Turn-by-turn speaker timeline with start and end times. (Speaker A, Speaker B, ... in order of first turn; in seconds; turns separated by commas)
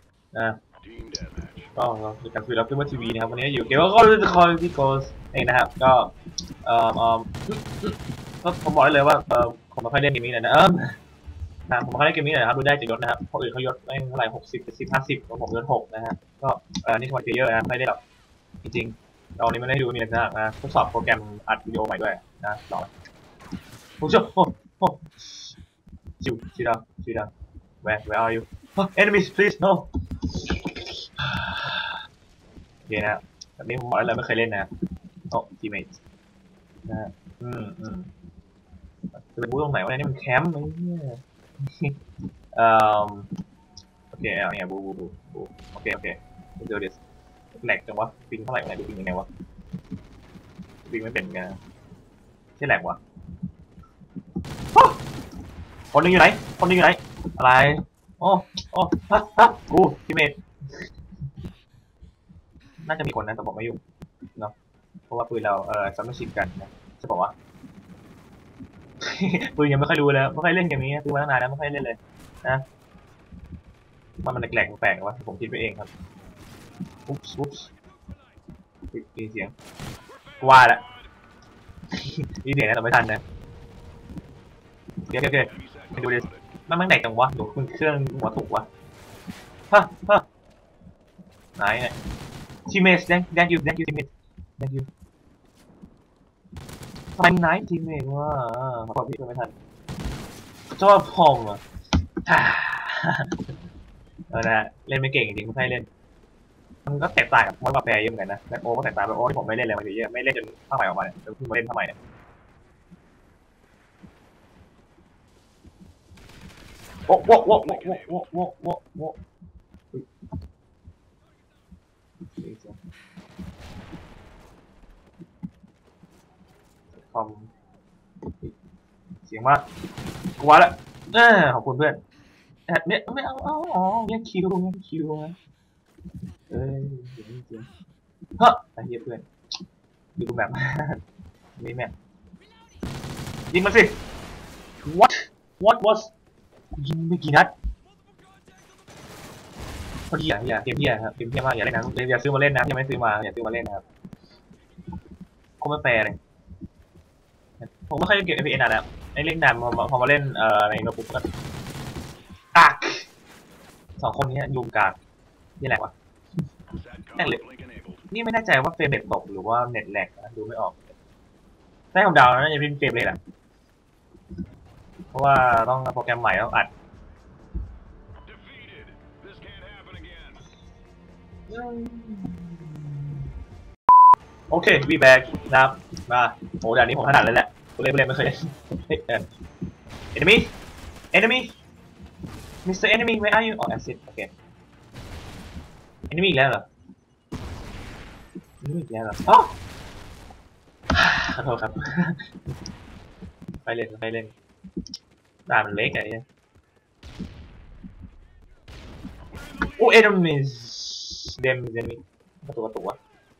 Speaker A: 0.3-0.6, Speaker B: 0.8-1.7, Speaker A: 1.8-11.0, Speaker A: 11.7-18.0, Speaker A: 18.6-22.9, Speaker A: 24.0-25.5, Speaker A: 26.2-27.3, Speaker A: 27.8-32.0, Speaker A: 32.9-34.7, Speaker A: 35.3-36.0, Speaker A: 36.8-38.1, Speaker A: 39.1-42.0, Speaker A: 42.5-43.3, Speaker A: 44.1-47.0, Speaker A: 47.5-49.3, Speaker A: 50.8-51.6, Speaker A: 52.6-53.0, Speaker A: 54.7-55.0, Speaker A: 55.9-60.4, Speaker A: 62.8-63.8, Speaker A: 65.1-67.3, Speaker A: 69.0-72.6, Speaker A: 74.2-75.9, Speaker A: 77.1-77.7, Speaker A: 78.9-79.5, Speaker A: 80.4-80.8, Speaker A: 81.9-83.2, Speaker A: 85.1-88.7, Speaker B: 85.5-86.4, Speaker A: 89.7-90.2, Speaker A: 91.5-92.0, Speaker A: 92.7-94.9, Speaker A: 97.2-99.5, Speaker A: 100.7-101.6, Speaker A: 102.2-103.5, Speaker A: 104.3-105.9, Speaker A: 106.8-112.0, Speaker A: 117.1-119.2, Speaker B: 117.1-118.1, Speaker A: 122.3-122.8, Speaker A: 126.9-127.5, Speaker A: 129.2-129.7, Speaker A: 130.4-132.0, Speaker A: 132.7-135.3, Speaker A: 136.5-137.7, Speaker A: 138.4-139.2, Speaker A: 140.2-141.0, Speaker A: 141.6-141.9, Speaker A: 143.5-144.0, Speaker A: 144.8-146.1, Speaker A: 146.8-147.5, Speaker A: 150.1-153.8, Speaker A: 155.6-156.2, Speaker A: 157.6-161.3, Speaker A: 162.5-163.1, Speaker A: 164.0-165.0, Speaker A: 165.6-165.9, Speaker B: 166.7-168.0, Speaker A: 167.1-167.4, Speaker A: 168.1-170.9, Speaker A: 171.9-173.2, Speaker A: 175.1-176.7, Speaker B: 178.2-180.4, Speaker A: 181.5-183.3, Speaker A: 184.5-189.3, Speaker A: 190.1-190.5, Speaker A: 191.1-191.6, Speaker A: 192.6-194.3, Speaker A: 196.1-196.7, Speaker A: 198.6-199.6, Speaker A: 200.9-202.5, Speaker A: 203.6-204.3, Speaker A: 205.4-206.2, Speaker A: 209.6-213.0